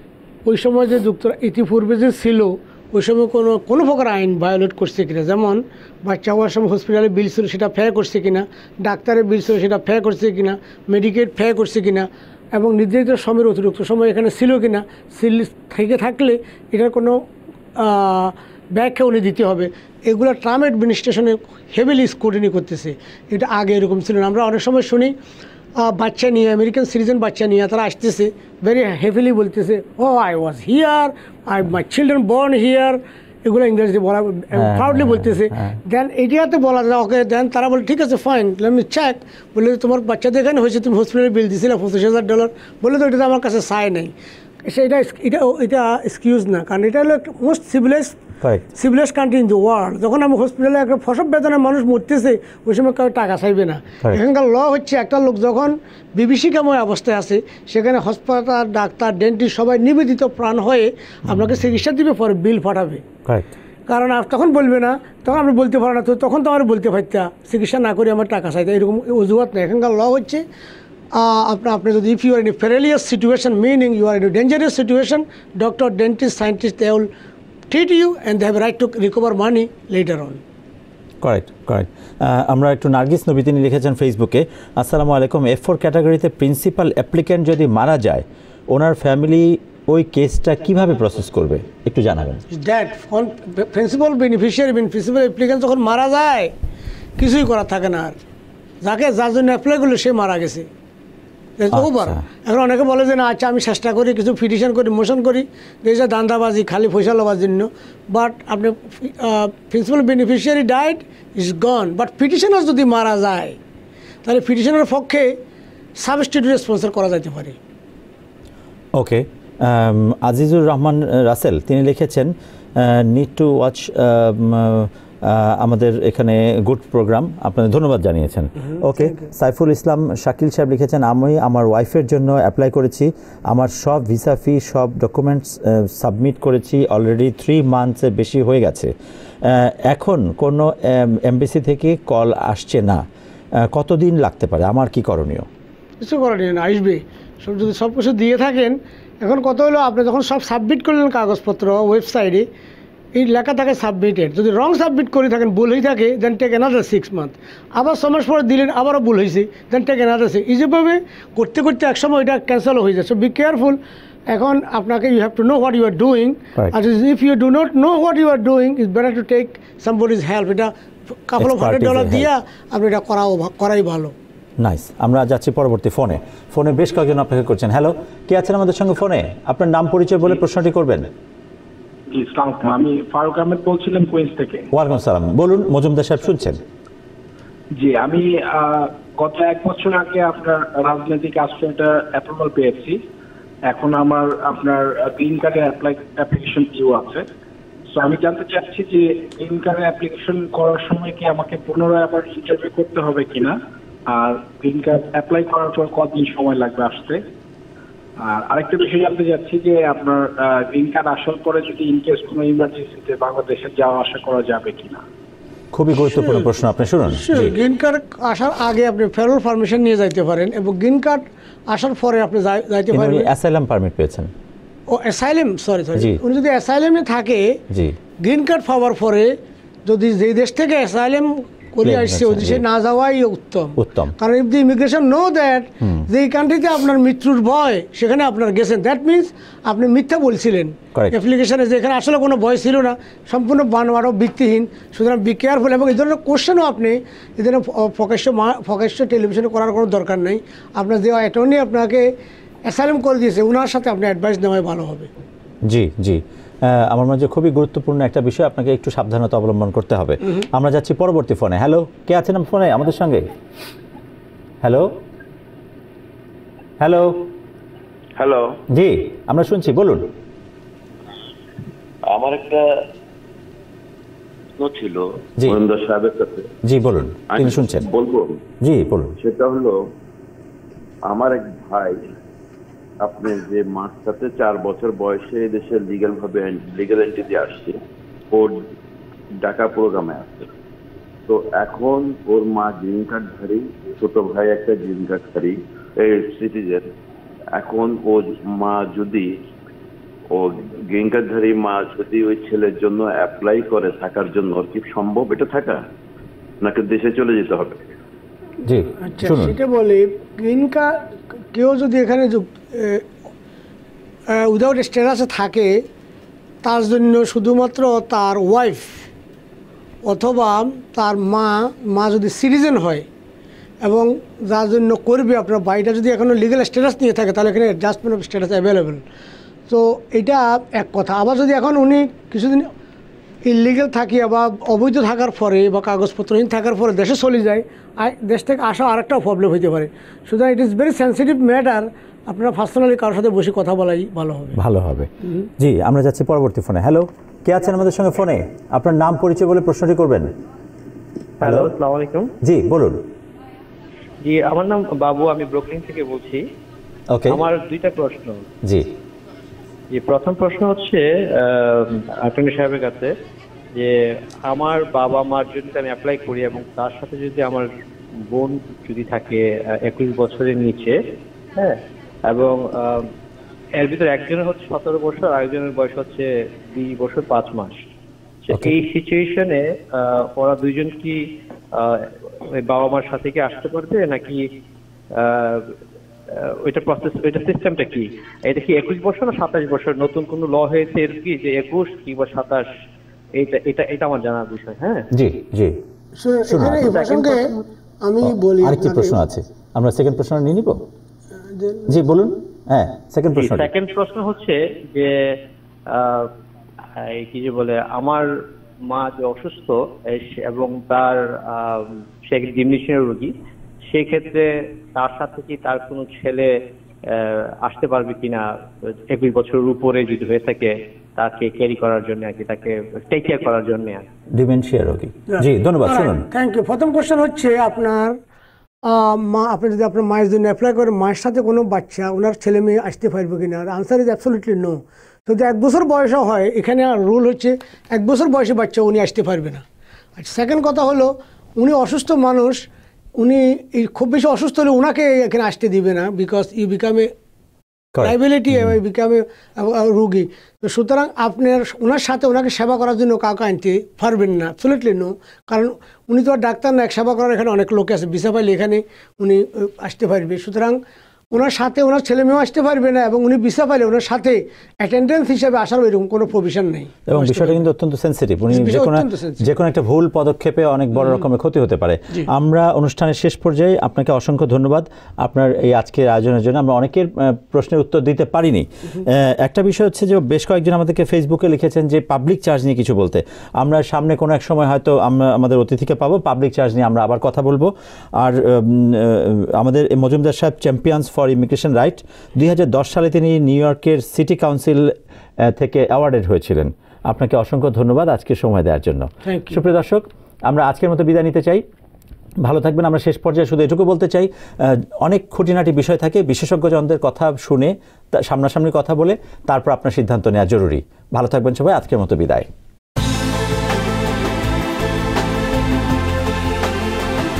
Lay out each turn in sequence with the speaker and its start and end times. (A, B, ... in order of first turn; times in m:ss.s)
0:00.5-0:17.2 A
0:17.8-0:25.1 A
0:25.8-0:44.1 A
0:34.5-0:35.8 B
0:44.6-0:48.2 A
0:48.4-0:48.7 B
0:48.8-1:03.0 A
1:03.9-1:10.4 A
1:11.1-1:17.1 A
1:17.7-1:20.4 A
1:21.2-1:32.4 B
1:32.5-1:36.5 A
1:37.2-1:38.2 A
1:38.8-1:40.7 A
1:41.6-1:53.6 A
1:41.7-1:42.2 B
1:54.2-1:55.3 A
1:56.0-1:57.6 A
1:59.0-2:18.9 B
2:09.0-2:09.3 A
2:19.4-2:23.0 B
2:23.6-2:25.5 B
2:26.0-2:32.4 A
2:33.2-2:43.8 A
2:44.3-2:50.7 A
2:51.3-2:54.1 A
2:51.4-2:52.3 B
2:54.6-3:01.1 B
3:02.1-3:04.7 C
3:04.7-3:06.6 B
3:07.8-3:13.0 C
3:13.7-3:17.2 C
3:17.9-3:23.6 C
3:24.1-3:27.2 C
3:28.2-3:35.0 C
3:35.7-3:37.6 B
3:36.0-3:36.5 A
3:37.1-3:43.3 A
3:42.9-3:44.3 B
3:44.9-3:47.6 A
3:47.7-3:48.0 B
3:48.2-3:49.3 A
3:49.9-4:12.1 A
3:51.8-3:52.6 B
3:53.8-3:54.2 B
3:55.8-3:56.1 B
4:12.7-4:15.1 A
4:15.7-4:23.3 B
4:24.6-4:24.9 B
4:26.8-4:27.2 B
4:28.2-4:28.6 D
4:28.7-4:30.1 B
4:32.1-4:32.6 D
4:34.6-4:36.5 D
4:36.6-4:37.9 B
4:37.3-4:38.4 D
4:38.6-4:39.1 B
4:39.2-4:39.8 D
4:41.1-4:42.0 D
4:43.0-4:47.8 D
4:49.4-4:50.5 D
4:51.3-4:56.8 D
4:57.6-4:59.3 D
5:00.3-5:05.8 D
5:06.6-5:07.8 D
5:08.6-5:09.6 B
5:09.1-5:11.0 A
5:11.5-5:13.1 A
5:14.3-5:15.8 A
5:16.6-5:19.1 A
5:20.0-5:23.1 A
5:23.8-5:29.0 A
5:29.7-5:32.7 A
5:33.4-5:44.6 A
5:44.6-5:50.3 B
5:51.4-5:51.7 B
5:51.4-5:52.3 E
5:52.4-5:53.0 B
5:54.2-5:56.4 E
5:57.1-5:57.4 B
5:57.3-5:58.4 E
5:58.6-5:58.9 B
6:00.0-6:03.1 E
6:04.5-6:07.7 E
6:08.3-6:11.0 E
6:12.3-6:13.1 E
6:13.8-6:17.8 E
6:18.5-6:21.2 E
6:18.5-6:18.8 B
6:21.8-6:22.1 E
6:22.6-6:24.4 E
6:25.2-6:25.7 E
6:26.6-6:32.7 E
6:33.4-6:35.1 E
6:35.1-6:35.8 B
6:36.2-6:39.2 A
6:36.5-6:37.4 B
6:38.2-6:40.9 B
6:41.4-6:42.0 A
6:41.9-6:43.7 B
6:43.4-6:45.2 E
6:45.9-6:46.3 E
6:47.0-6:48.3 E
6:48.9-6:53.3 E
6:53.9-6:56.5 E
6:57.1-6:58.4 E
6:59.1-7:04.0 E
7:04.3-7:06.3 B
7:05.4-7:08.2 A
7:08.8-7:19.6 A
7:20.2-7:22.7 A
7:23.2-7:27.1 A
7:28.0-7:28.8 B
7:28.0-7:40.8 A
7:41.3-7:47.6 A
7:47.1-8:21.6 B
7:48.5-7:49.5 A
7:51.0-7:51.2 A
8:19.3-8:19.6 A
8:22.4-8:32.5 B